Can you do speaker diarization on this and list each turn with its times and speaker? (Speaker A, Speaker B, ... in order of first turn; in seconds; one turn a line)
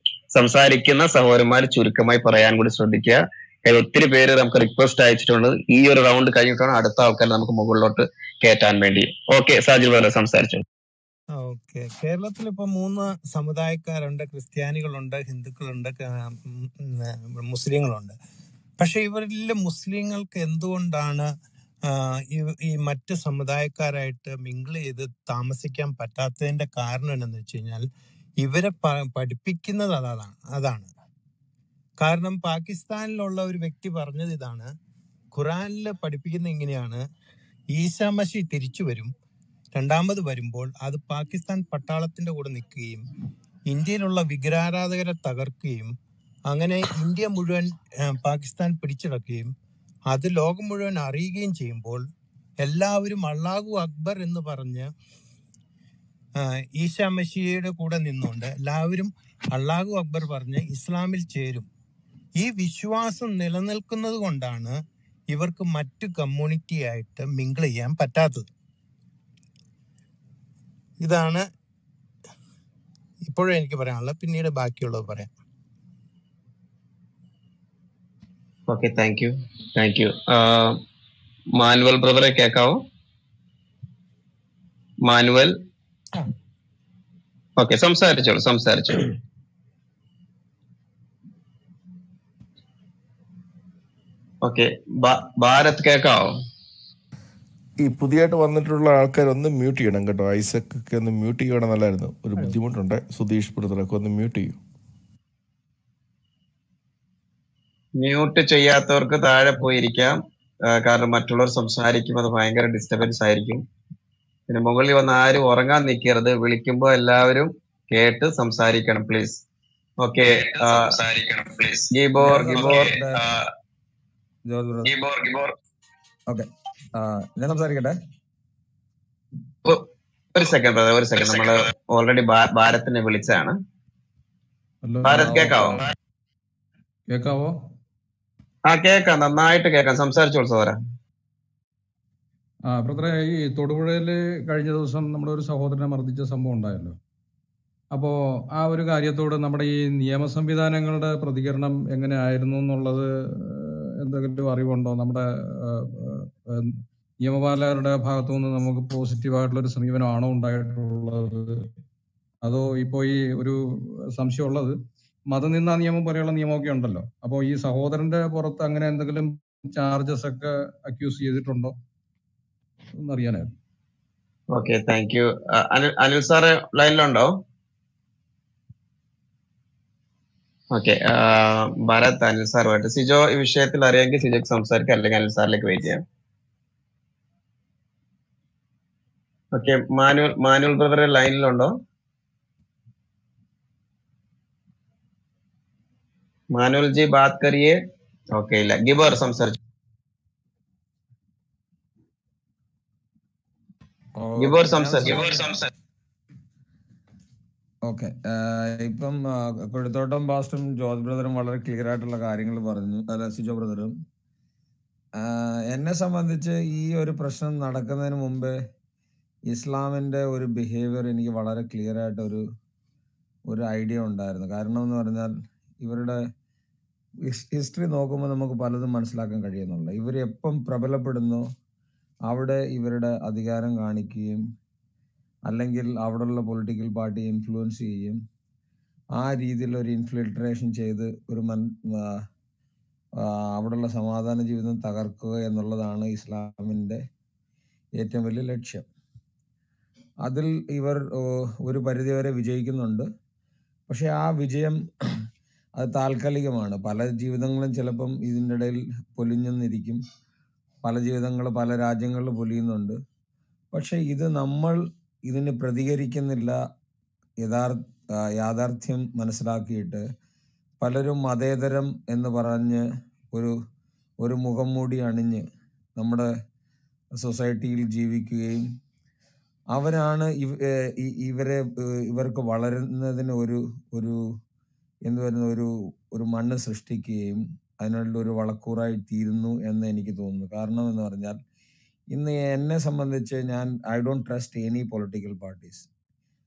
Speaker A: 0.3-10.6
Speaker B: 11.3-18.1
Speaker B: 18.8-21.3
Speaker B: 21.9-27.8
Speaker B: 28.4-30.9
Speaker B: 32.0-34.7
Speaker B: 35.3-37.0
Speaker B: 37.7-39.1
Speaker B: 39.7-43.1
Speaker B: 43.7-45.9
Speaker B: 46.5-49.5
Speaker B: 50.1-52.1
Speaker B: 52.6-54.9
Speaker B: 56.4-61.7
Speaker B: 62.4-68.5
Speaker B: 71.0-71.4
Speaker B: 73.3-75.3
Speaker A: 78.7-80.8
Speaker A: 81.6-82.8
Speaker A: 85.0-85.5
Speaker A: 87.6-89.1
Speaker A: 94.4-96.3
Speaker C: 97.8-104.6
Speaker A: 108.0-113.6
Speaker A: 114.5-119.4
Speaker A: 120.0-123.4
Speaker D: 122.2-123.3
Speaker D: 124.5-124.9
Speaker A: 124.9-125.5
Speaker D: 126.3-128.0
Speaker A: 130.3-133.6
Speaker E: 134.8-135.8
Speaker A: 135.1-135.9
Speaker E: 137.1-137.6
Speaker A: 138.7-140.8
Speaker E: 142.7-147.0
Speaker E: 147.9-161.7
Speaker E: 162.4-164.8
Speaker E: 165.3-171.8
Speaker E: 173.0-173.5
Speaker A: 174.5-177.3
Speaker A: 180.7-186.0
Speaker A: 189.5-191.7
Speaker A: 196.5-197.8
Speaker A: 198.3-199.6
Speaker D: 204.2-205.5
Speaker A: 204.4-205.7
Speaker D: 207.9-214.0
Speaker D: 215.2-218.6
Speaker D: 219.5-222.5
Speaker D: 223.5-226.2
Speaker D: 227.3-231.5
Speaker D: 232.3-234.4
Speaker D: 235.5-238.2
Speaker D: 239.2-242.3
Speaker D: 243.2-247.0
Speaker D: 248.0-248.9
Speaker D: 250.2-253.1
Speaker D: 253.9-254.8
Speaker D: 255.8-260.0
Speaker D: 260.8-263.0
Speaker D: 263.7-266.6
Speaker D: 267.4-270.1
Speaker D: 270.8-273.6
Speaker D: 274.2-275.4
Speaker D: 276.0-276.3
Speaker D: 277.2-278.7
Speaker D: 279.7-284.2
Speaker D: 285.1-291.4
Speaker D: 292.1-295.9